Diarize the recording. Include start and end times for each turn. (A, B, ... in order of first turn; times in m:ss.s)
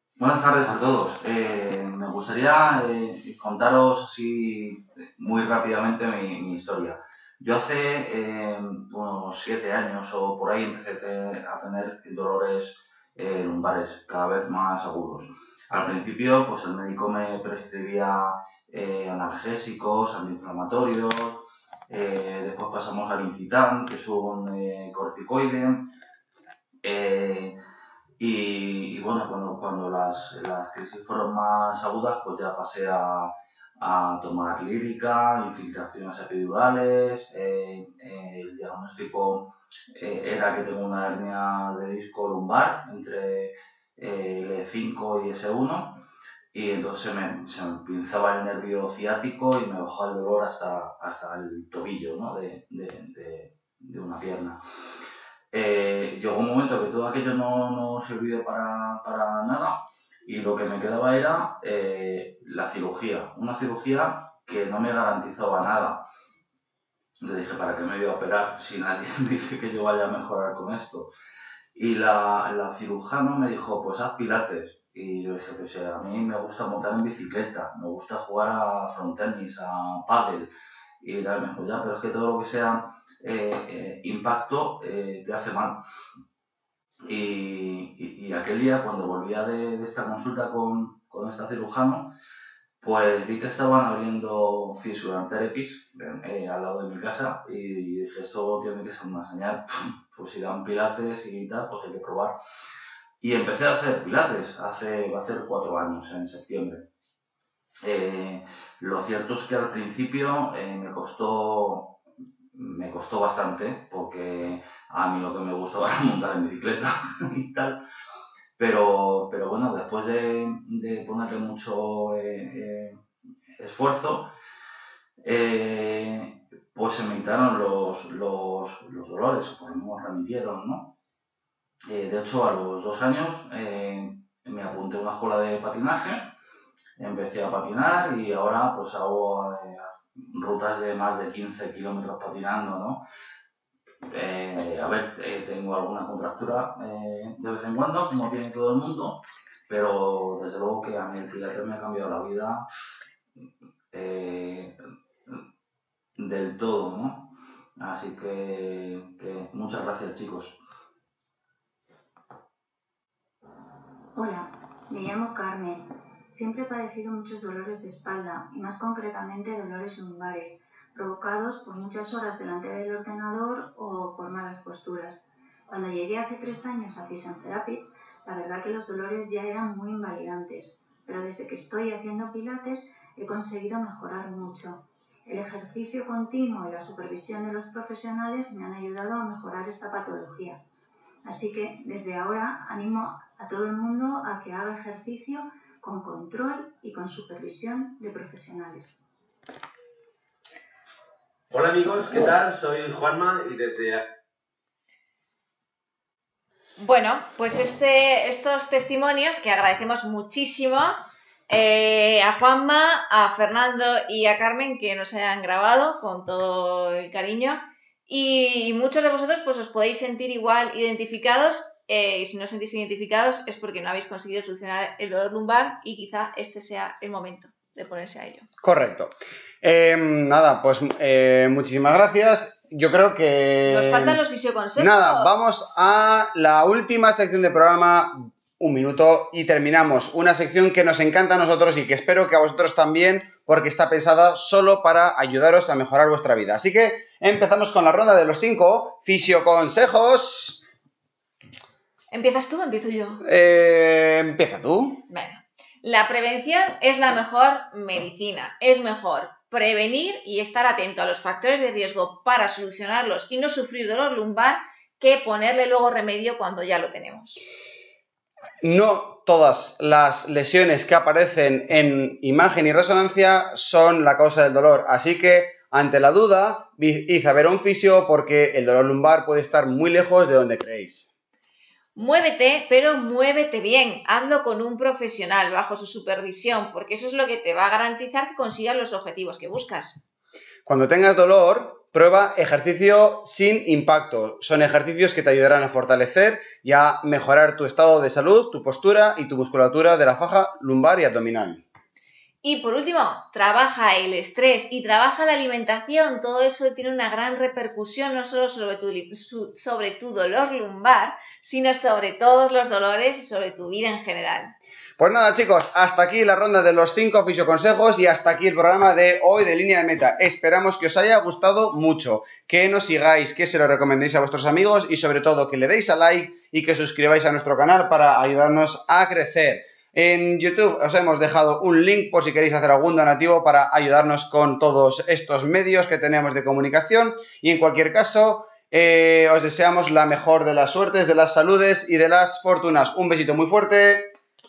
0:00.2-0:25.9 A
0:26.8-0:27.6 A
0:28.2-0:46.0 A
0:46.5-0:54.6 A
0:55.5-1:06.0 A
1:07.2-1:11.1 A
1:11.7-1:20.5 A
1:21.0-1:25.8 A
1:27.1-1:32.1 A
1:32.8-1:42.4 A
1:43.2-1:46.9 A
1:47.8-1:52.0 A
1:52.5-1:57.8 A
1:58.6-2:03.0 A
2:03.6-2:04.3 A
2:05.2-2:10.9 A
2:11.9-2:16.3 A
2:17.0-2:23.0 A
2:24.1-2:32.6 A
2:33.9-2:34.8 A
2:36.2-2:40.6 A
2:44.1-3:10.6 B
3:11.2-3:19.0 B
3:21.5-3:24.0 C
3:26.8-3:31.0 D
3:31.5-3:48.5 D
3:48.6-3:54.2 E
3:53.6-3:55.8 D
3:54.8-4:10.6 E
4:12.1-4:13.2 D
4:13.2-4:15.0 E
4:15.1-4:27.4 D
4:28.6-4:41.1 E
4:42.0-4:50.0 D
4:50.6-5:01.6 E
5:02.4-5:14.5 D
5:15.0-5:44.1 E